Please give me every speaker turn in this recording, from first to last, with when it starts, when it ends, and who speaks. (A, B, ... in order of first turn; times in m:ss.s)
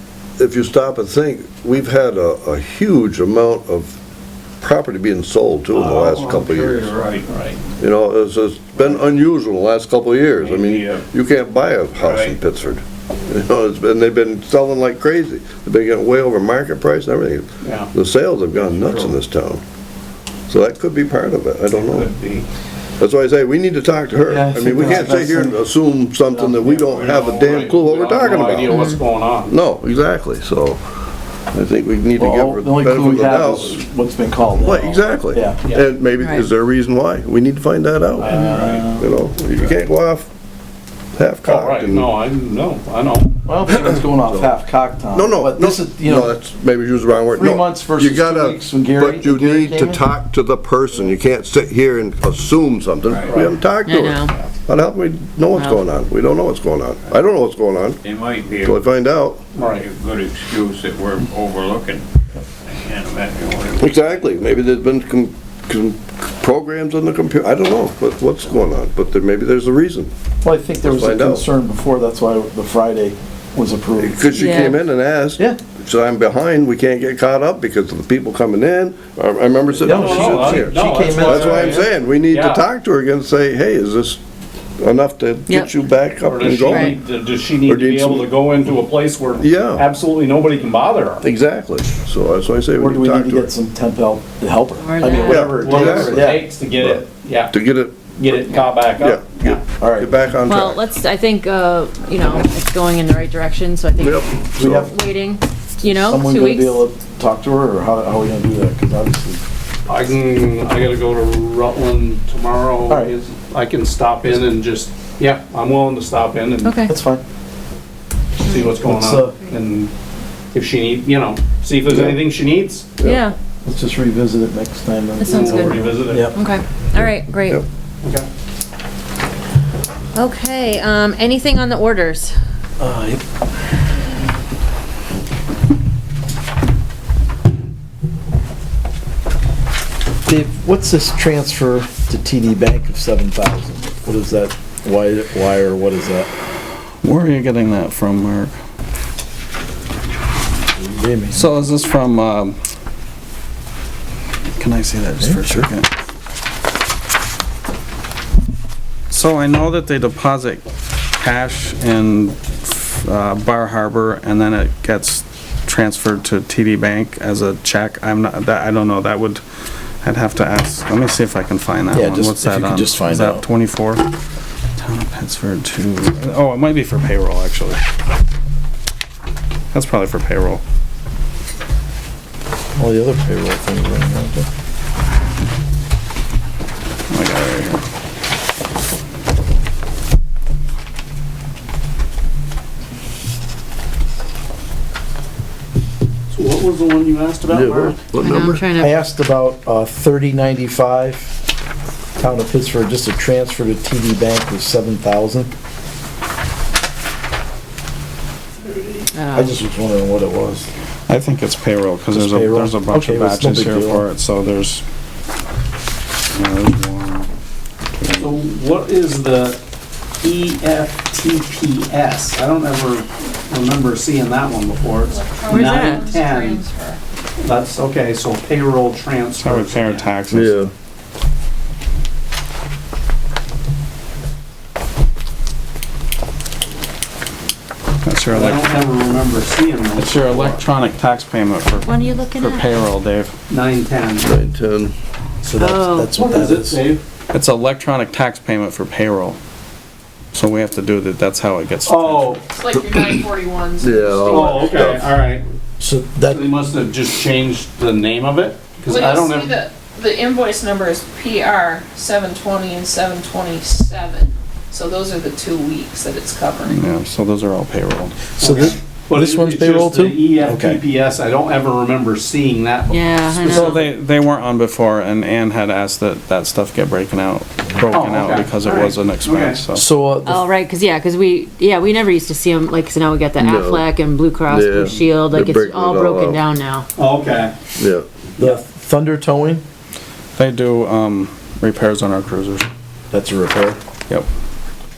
0:00.4-0:04.0 A
0:04.6-0:07.0 A
0:05.7-0:07.3 B
0:07.3-0:07.6 C
0:07.8-0:19.6 A
0:10.4-0:11.0 B
0:12.0-0:12.4 B
0:17.6-0:17.9 C
0:18.5-0:19.2 B
0:20.5-0:22.1 A
0:21.8-0:22.4 B
0:23.0-0:28.9 A
0:24.3-0:25.6 D
0:26.3-0:26.6 D
0:26.6-0:27.7 B
0:27.0-0:29.5 C
0:28.7-0:29.0 E
0:29.4-0:30.8 A
0:31.5-0:33.8 A
0:32.2-0:35.6 D
0:34.5-0:40.3 A
0:38.2-0:39.1 D
0:38.3-0:38.7 E
0:38.4-0:38.8 C
0:41.2-0:42.1 A
0:41.4-0:43.4 C
0:43.5-0:46.4 D
0:43.7-0:44.5 A
0:45.1-0:58.0 A
0:47.3-0:50.0 D
0:53.1-0:53.4 B
0:53.2-0:53.6 C
0:53.8-0:54.3 E
0:55.5-0:55.8 E
0:58.0-0:58.8 B
0:58.6-0:59.4 A
0:59.6-0:59.9 C
0:59.6-1:02.0 B
1:02.7-1:04.4 B
1:03.8-1:10.1 A
1:10.4-1:14.4 D
1:10.8-1:11.5 A
1:14.0-1:24.2 A
1:14.4-1:14.8 E
1:19.8-1:21.9 D
1:19.9-1:22.6 C
1:24.8-1:27.0 A
1:26.2-1:31.2 C
1:26.7-1:27.0 E
1:27.6-1:28.3 A
1:29.4-1:29.9 A
1:31.2-1:33.5 A
1:32.8-1:36.4 D
1:34.8-1:35.5 E
1:35.2-1:38.0 A
1:35.5-1:37.5 C
1:38.2-1:39.6 C
1:39.0-1:40.8 A
1:39.8-1:40.1 D
1:40.5-1:46.8 E
1:44.0-1:44.9 A
1:44.6-1:45.0 D
1:45.8-1:49.4 D
1:49.9-1:56.8 C
1:52.9-1:53.1 D
1:56.6-1:56.9 E
1:56.8-1:57.2 D
1:58.4-1:58.7 E
1:58.4-1:59.9 C
1:58.8-1:59.4 D
2:00.5-2:03.0 C
2:01.9-2:02.2 D
2:03.0-2:03.4 E
2:03.0-2:06.4 D
2:05.2-2:07.6 E
2:05.2-2:06.4 C
2:10.2-2:12.4 E
2:12.8-2:13.2 D
2:20.3-2:26.3 D
2:27.0-2:28.6 F
2:30.8-2:31.5 D
2:31.3-2:32.6 F
2:34.6-2:35.9 F
2:35.2-2:35.7 D
2:39.1-2:40.6 F
2:41.2-2:49.4 F
2:50.0-2:54.1 F
2:51.9-2:53.4 D
2:54.8-2:57.8 F
2:59.7-3:00.6 F
3:02.8-3:04.5 D
3:07.1-3:07.8 F
3:16.3-3:18.0 C
3:17.5-3:18.6 A
3:18.2-3:19.0 E
3:18.7-3:21.4 D
3:22.2-3:25.5 D
3:29.1-3:29.5 E
3:29.3-3:30.7 D
3:31.1-3:34.8 F
3:32.1-3:34.1 D
3:36.3-3:37.3 F
3:38.1-3:39.6 C
3:40.2-3:46.6 C
3:45.0-3:47.0 G
3:45.5-3:46.0 E
3:47.4-3:50.0 C
3:49.4-3:50.6 F
3:50.3-3:50.7 A
3:58.0-3:58.6 F
3:58.3-4:00.6 C
4:00.0-4:03.3 F
4:01.8-4:02.8 E
4:03.5-4:04.3 C
4:04.2-4:04.9 A
4:05.4-4:06.8 D
4:05.6-4:06.1 E
4:06.1-4:07.0 C
4:07.3-4:09.4 F
4:10.3-4:12.4 F
4:11.9-4:12.4 C
4:12.5-4:15.0 G
4:13.8-4:15.1 A
4:14.3-4:15.4 C
4:15.8-4:16.5 D
4:16.3-4:19.6 C
4:18.9-4:26.8 G
4:26.7-4:28.3 F
4:28.4-4:30.8 D
4:28.4-4:33.8 C
4:32.9-4:33.9 E
4:33.5-4:39.8 F
4:37.9-4:39.6 C
4:39.8-4:40.4 D
4:40.2-4:46.9 E
4:43.4-4:43.8 A
4:44.5-4:46.4 A
4:47.0-4:47.5 C
4:47.8-4:48.1 A
4:48.4-4:49.6 D
4:50.4-4:52.7 F
4:53.1-4:53.8 D